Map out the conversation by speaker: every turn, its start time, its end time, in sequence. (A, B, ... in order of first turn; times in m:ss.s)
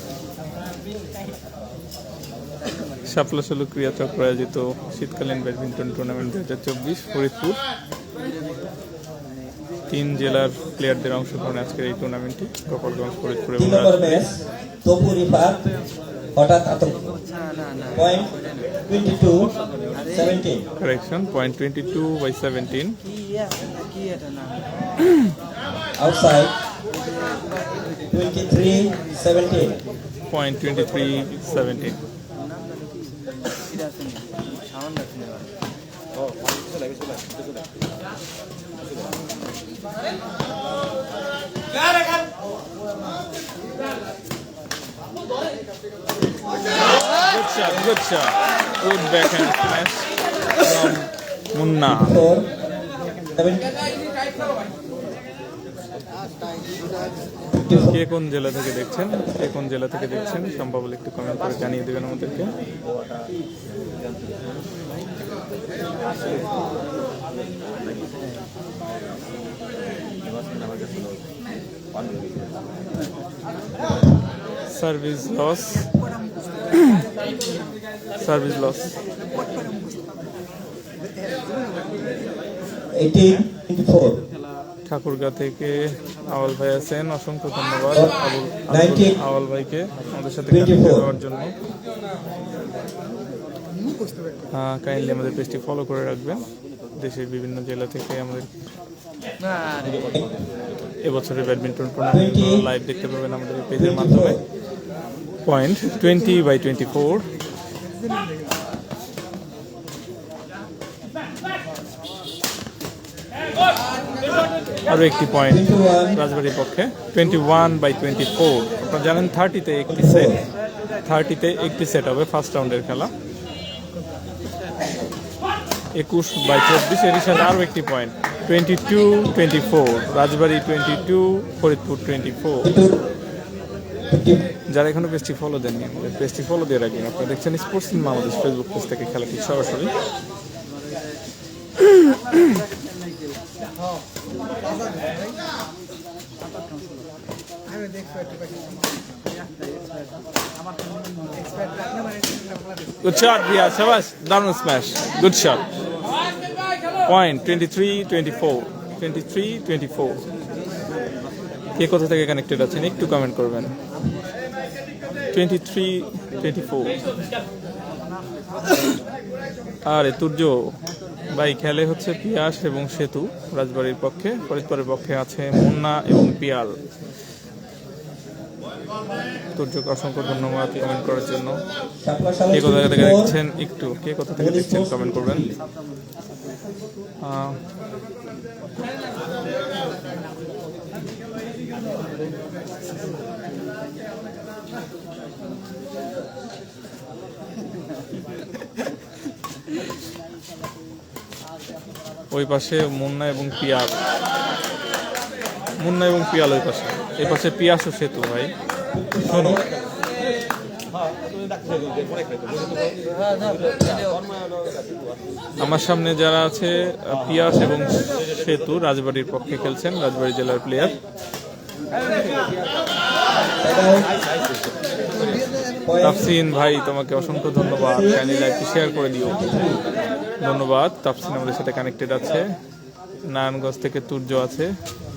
0:03.0-0:07.6 A
0:08.2-0:08.7 B
0:09.9-0:14.2 A
0:13.6-0:15.7 C
0:16.3-0:17.0 C
0:17.1-0:18.7 B
0:17.9-0:18.3 C
0:18.8-0:19.5 C
0:19.9-0:20.4 B
0:20.1-0:20.6 C
0:20.8-0:23.0 A
0:23.0-0:24.7 B
0:26.0-0:26.5 C
0:27.0-0:28.0 B
0:28.1-0:29.8 C
0:30.3-0:32.0 A
0:32.5-0:35.5 B
0:47.0-0:52.2 A
0:51.8-0:52.5 C
0:53.3-0:53.7 C
0:57.5-0:58.0 C
0:57.7-1:02.5 A
1:14.7-1:15.9 A
1:18.2-1:19.0 A
1:22.9-1:24.2 C
1:24.8-1:31.5 A
1:28.7-1:29.2 C
1:30.5-1:31.1 C
1:34.5-1:38.5 A
1:39.4-1:40.2 B
1:41.0-1:44.4 A
1:42.1-1:42.7 C
1:43.7-1:44.4 C
1:45.4-1:47.3 A
1:54.9-2:00.5 A
1:55.5-1:56.2 C
1:59.9-2:00.4 C
2:01.0-2:03.1 A
2:05.9-2:12.7 A
2:12.6-2:13.0 C
2:14.1-2:14.4 C
2:14.7-2:19.9 A
2:33.0-2:35.6 A
2:37.0-2:40.2 A
2:41.8-2:43.7 A
2:45.3-2:47.0 A
2:49.9-2:50.7 A
2:51.3-2:56.8 A
2:59.5-3:01.6 A
3:02.0-3:03.4 C
3:02.5-3:05.5 A
3:04.4-3:05.6 C
3:07.2-3:07.6 A
3:22.3-3:24.0 A
3:25.8-3:28.5 A
3:28.9-3:29.6 C
3:29.3-3:29.6 A
3:33.0-3:34.2 B
3:35.6-3:41.0 A
3:43.6-3:44.1 C
3:45.8-3:46.3 C
3:46.0-3:49.4 A
3:47.6-3:48.3 C
3:49.2-3:49.8 C
3:50.4-3:52.5 A
3:53.2-3:54.7 A